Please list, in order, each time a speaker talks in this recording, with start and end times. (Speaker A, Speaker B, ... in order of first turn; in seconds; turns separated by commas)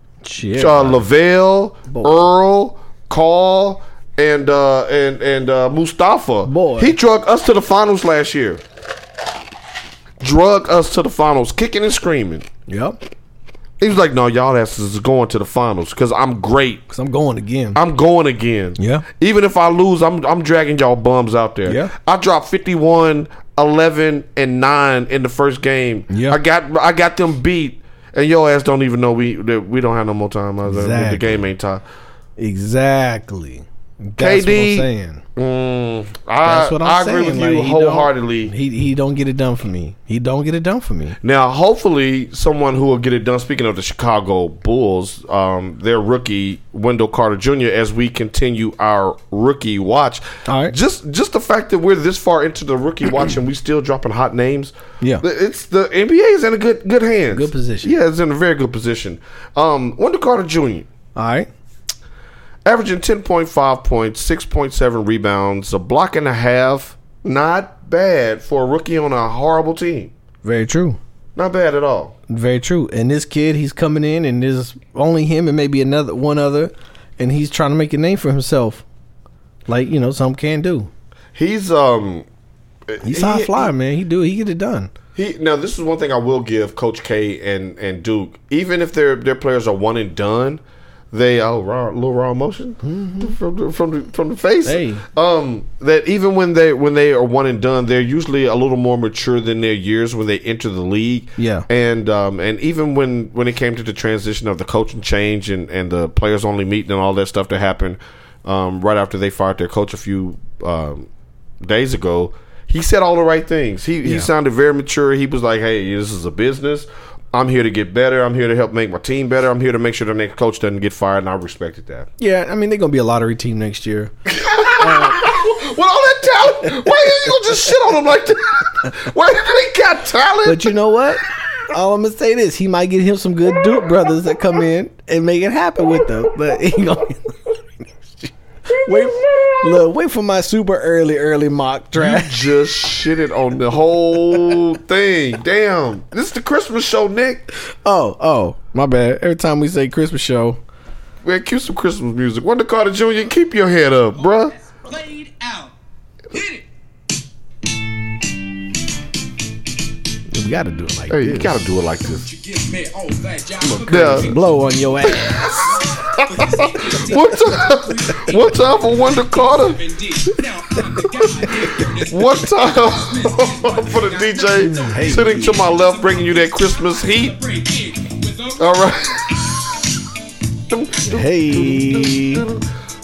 Speaker A: 0.2-1.1, Speaker B: 0.6-8.6, Speaker A: 1.9-2.2, Speaker A: 6.5-7.0, Speaker B: 10.2-12.5, Speaker A: 12.7-13.0, Speaker B: 13.8-16.8, Speaker A: 16.9-17.8, Speaker B: 17.8-31.8, Speaker A: 18.8-19.1, Speaker A: 21.7-21.9, Speaker A: 26.1-26.4, Speaker A: 30.7-31.4, Speaker A: 32.4-35.2, Speaker B: 34.2-38.5, Speaker A: 36.4-41.2, Speaker B: 41.2-60.9, Speaker A: 50.5-50.8, Speaker A: 57.3-57.9, Speaker A: 61.1-61.5, Speaker B: 62.6-70.1, Speaker A: 70.4-71.0, Speaker B: 71.4-72.2, Speaker A: 72.3-78.8, Speaker A: 79.7-80.9, Speaker B: 81.3-82.3, Speaker B: 82.9-83.7, Speaker A: 83.0-84.9, Speaker B: 85.2-90.6, Speaker B: 91.1-111.1, Speaker A: 92.8-93.3, Speaker A: 94.7-95.0, Speaker A: 101.4-101.7, Speaker B: 111.6-122.1, Speaker A: 122.2-125.3, Speaker B: 124.3-130.8, Speaker A: 130.4-142.5, Speaker B: 138.9-139.5, Speaker B: 142.0-147.5, Speaker A: 147.8-150.6, Speaker B: 151.2-154.5, Speaker C: 154.8-155.7, Speaker C: 156.3-156.6, Speaker A: 160.3-161.6, Speaker B: 161.1-162.3, Speaker C: 162.2-164.5, Speaker A: 163.6-165.7, Speaker B: 163.8-164.3, Speaker B: 165.1-169.8, Speaker C: 165.4-168.8, Speaker C: 169.6-174.8, Speaker B: 172.0-177.4, Speaker A: 174.6-175.6, Speaker C: 175.3-178.7, Speaker B: 178.6-179.9, Speaker B: 180.7-182.6, Speaker A: 181.0-182.5